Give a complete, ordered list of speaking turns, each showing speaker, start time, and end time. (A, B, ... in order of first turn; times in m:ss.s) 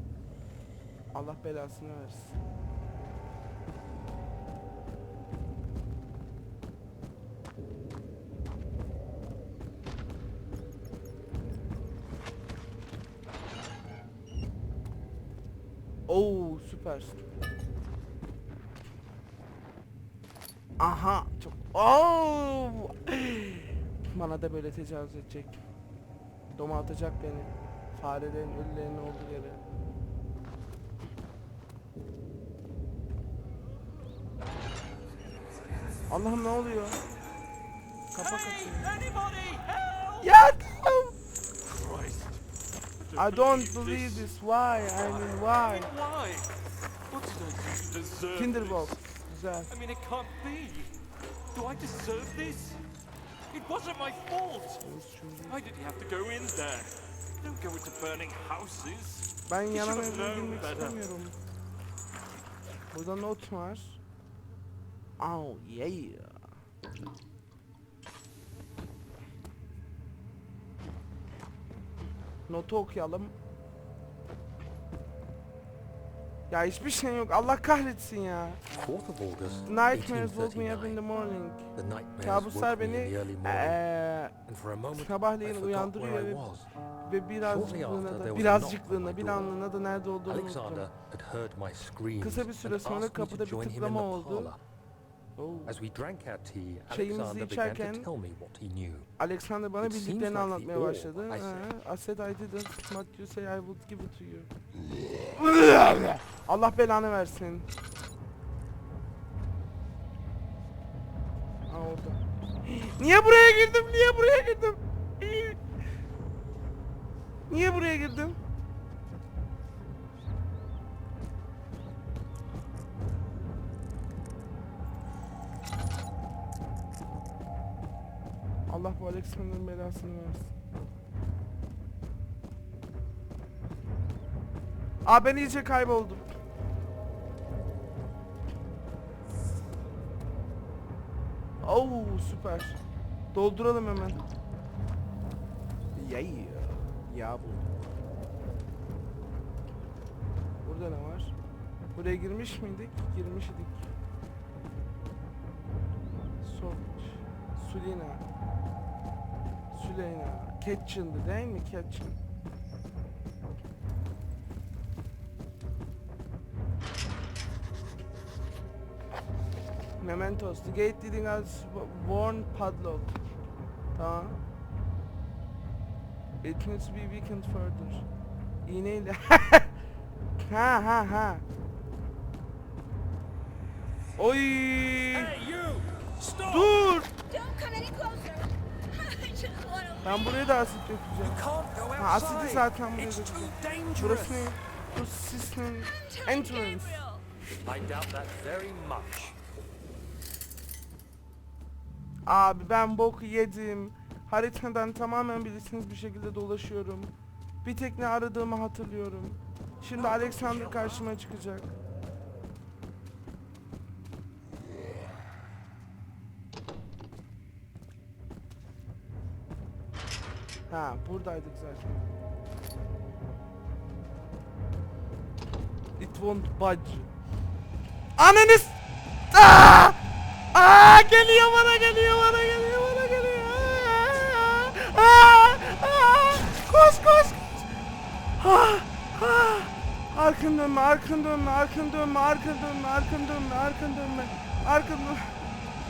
0:01.1-0:02.4 A
0:16.1-0:17.2 A
0:20.8-0:25.6 A
0:26.5-0:29.6 A
0:36.1-0:37.0 A
0:38.1-0:39.0 A
0:38.3-0:40.2 B
0:40.2-0:41.1 A
0:41.7-0:42.4 B
0:43.1-0:44.2 B
0:43.1-0:45.9 A
0:45.0-0:46.5 B
0:47.1-0:48.9 B
0:48.3-0:49.7 A
0:49.7-0:50.9 B
0:51.5-0:52.8 B
0:53.5-0:54.8 B
0:54.8-0:55.6 A
0:55.5-1:01.0 B
0:59.4-1:01.4 A
1:02.9-1:04.0 A
1:05.2-1:06.4 A
1:12.5-1:13.3 A
1:16.5-1:18.6 A
1:18.7-1:21.0 C
1:19.6-1:21.7 A
1:21.7-1:23.8 C
1:22.2-1:24.3 A
1:24.4-1:26.7 C
1:24.9-1:26.4 A
1:27.0-1:30.9 A
1:27.4-1:29.5 C
1:30.2-1:34.6 C
1:32.2-1:34.5 A
1:35.4-1:35.8 A
1:35.7-1:39.1 C
1:36.9-1:38.1 A
1:39.2-1:44.5 A
1:39.8-1:41.7 C
1:45.1-1:47.7 A
1:51.7-1:55.6 A
1:57.5-1:58.4 A
2:08.7-2:10.5 A
2:15.0-2:16.2 A
2:21.6-2:22.8 A
2:23.3-2:24.2 A
2:25.9-2:27.7 A
2:30.6-2:31.3 A
2:31.9-2:33.9 A
2:36.4-2:38.2 A
2:39.7-2:42.2 A
2:50.0-2:53.1 A
2:53.9-2:54.4 A
2:56.4-2:58.0 A
2:58.6-2:59.7 A
3:00.4-3:01.4 A
3:04.2-3:05.4 A
3:05.1-3:06.8 C
3:06.4-3:07.1 A
3:07.3-3:10.0 D
3:10.0-3:17.1 A
3:11.2-3:14.5 C
3:16.4-3:17.2 D
3:17.6-3:19.4 C
3:22.2-3:27.1 A
3:27.6-3:31.7 A
3:30.0-3:30.8 C
3:40.7-3:42.0 A
3:46.0-3:47.1 A
3:48.2-3:48.8 A
3:49.3-3:50.0 A
3:50.5-3:57.6 A
3:58.4-4:05.4 A